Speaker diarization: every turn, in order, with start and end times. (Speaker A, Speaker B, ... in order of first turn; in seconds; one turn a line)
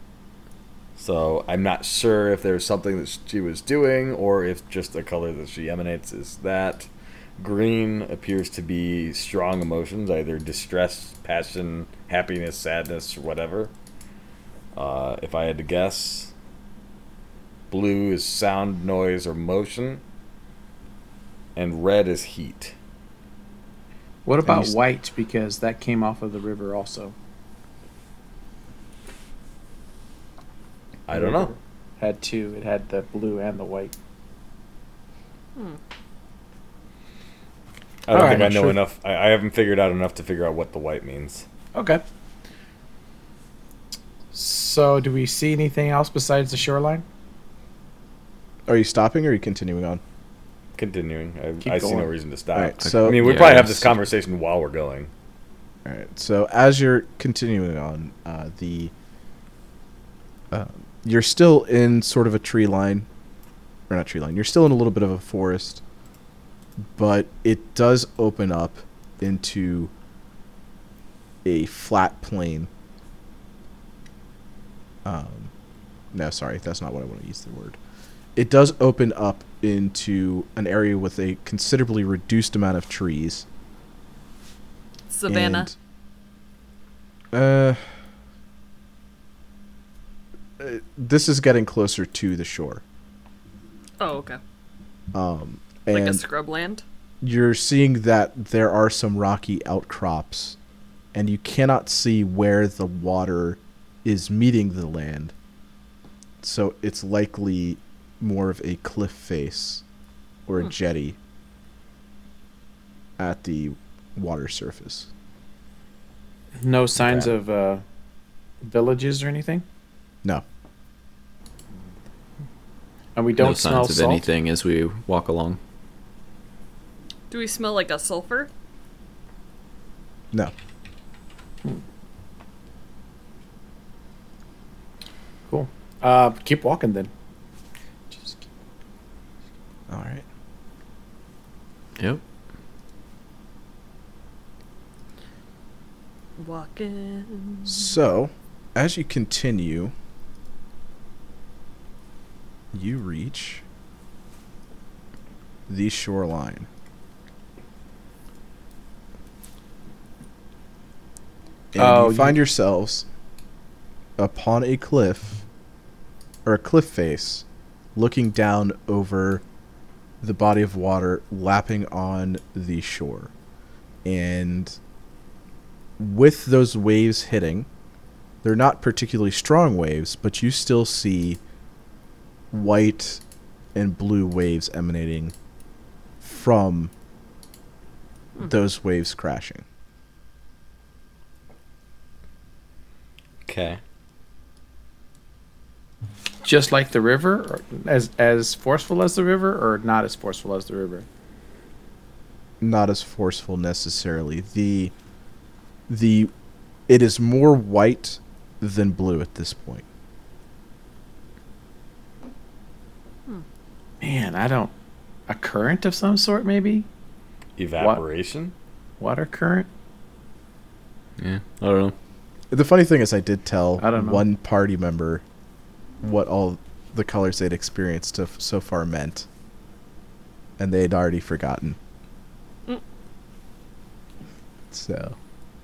Speaker A: 1.0-13.7
Speaker A: 14.7-16.3
Speaker A: 17.7-20.0
Speaker A: 21.6-22.7
Speaker B: 24.2-27.1
Speaker C: 24.4-24.7
Speaker A: 31.1-31.5
Speaker B: 31.1-33.9
Speaker A: 38.1-41.4
Speaker B: 38.1-38.8
Speaker B: 41.7-42.0
Speaker B: 44.3-47.0
Speaker C: 48.7-50.0
Speaker A: 50.8-55.1
Speaker B: 51.6-52.1
Speaker C: 52.5-53.6
Speaker D: 53.1-53.9
Speaker C: 55.9-58.9
Speaker C: 60.5-63.1
Speaker C: 63.9-65.8
Speaker C: 67.0-69.9
Speaker C: 71.4-72.7
Speaker C: 75.0-75.5
Speaker C: 76.1-77.8
Speaker C: 78.3-83.4
Speaker E: 85.1-85.7
Speaker C: 85.3-85.7
Speaker C: 87.3-87.8
Speaker C: 90.6-92.8
Speaker E: 94.0-94.4
Speaker C: 95.1-96.2
Speaker E: 95.9-96.8
Speaker C: 97.2-100.6
Speaker C: 101.1-105.3
Speaker C: 106.4-109.8
Speaker C: 110.5-111.2
Speaker C: 113.2-115.1
Speaker B: 116.6-117.8
Speaker C: 117.0-117.3
Speaker B: 118.6-119.6
Speaker B: 123.2-124.3
Speaker D: 123.4-125.6
Speaker E: 127.3-128.5
Speaker B: 135.5-137.1
Speaker B: 138.1-138.5
Speaker C: 139.9-140.2
Speaker E: 146.4-147.9
Speaker C: 147.7-149.9
Speaker C: 152.7-153.6
Speaker C: 155.7-156.7
Speaker C: 161.7-163.1
Speaker B: 161.8-162.4
Speaker C: 164.2-165.4
Speaker C: 166.4-169.4
Speaker C: 170.2-173.3
Speaker C: 174.1-174.8
Speaker C: 176.0-177.7
Speaker C: 178.4-181.4
Speaker C: 182.5-183.2
Speaker C: 183.7-185.3
Speaker C: 186.2-186.9
Speaker C: 188.4-189.6
Speaker A: 193.4-193.8
Speaker B: 196.4-201.1
Speaker C: 202.6-204.9
Speaker C: 205.9-206.3
Speaker C: 206.9-209.8
Speaker B: 214.0-214.7
Speaker B: 215.3-216.9
Speaker A: 217.6-218.5
Speaker B: 219.0-219.7
Speaker D: 221.2-221.9
Speaker C: 222.5-225.2
Speaker B: 223.8-224.2
Speaker C: 226.0-229.3
Speaker C: 230.6-231.8
Speaker C: 234.7-235.2